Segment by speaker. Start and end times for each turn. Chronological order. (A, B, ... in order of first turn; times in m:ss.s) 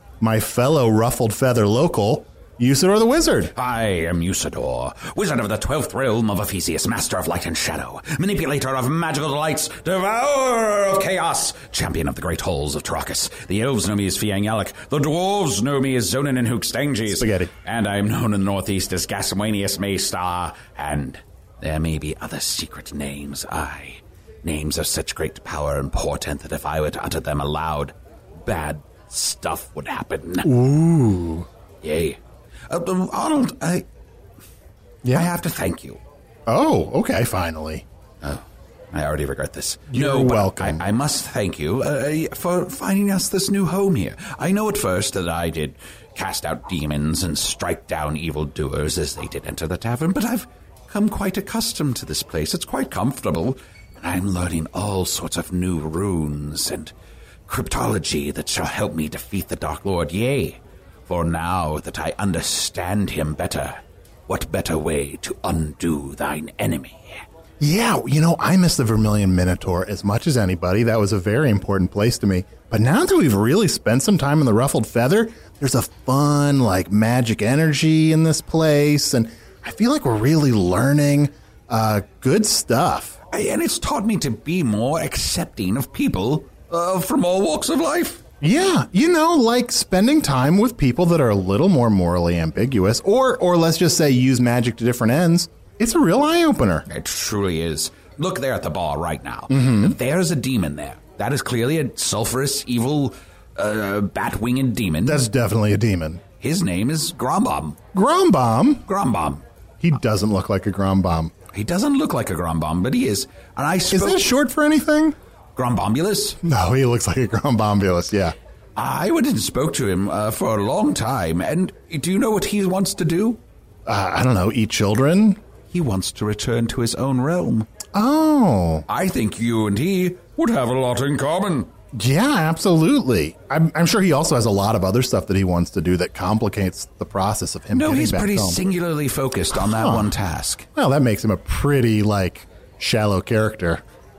0:00.2-0:03.5 A
0:03.6-0:30.5 B
0:17.1-0:17.5 A
0:30.4-0:31.5 A
0:31.8-0:33.9 B
0:35.0-0:35.3 A
0:35.1-0:36.0 B
0:36.5-0:37.8 A
0:38.2-0:56.9 B
0:39.9-0:40.8 A
0:57.5-1:07.2 B
1:07.6-1:23.2 A
1:23.3-1:28.2 B
1:28.4-1:36.8 A
1:36.9-1:45.3 B
1:39.5-1:40.0 A
1:45.0-1:46.2 A
1:46.4-1:47.8 B
1:47.9-1:48.8 A
1:48.9-1:49.4 B
1:49.8-1:51.3 A
1:51.5-1:54.2 B
1:53.9-1:55.2 A
1:55.6-1:56.4 B
1:56.4-1:58.4 A
1:58.8-2:03.4 B
2:03.9-2:05.4 A
2:05.7-2:07.7 B
2:07.9-2:08.8 A
2:08.9-2:11.7 B
2:11.9-2:18.6 A
2:17.7-2:20.7 B
2:19.6-2:20.1 A
2:20.8-2:23.8 A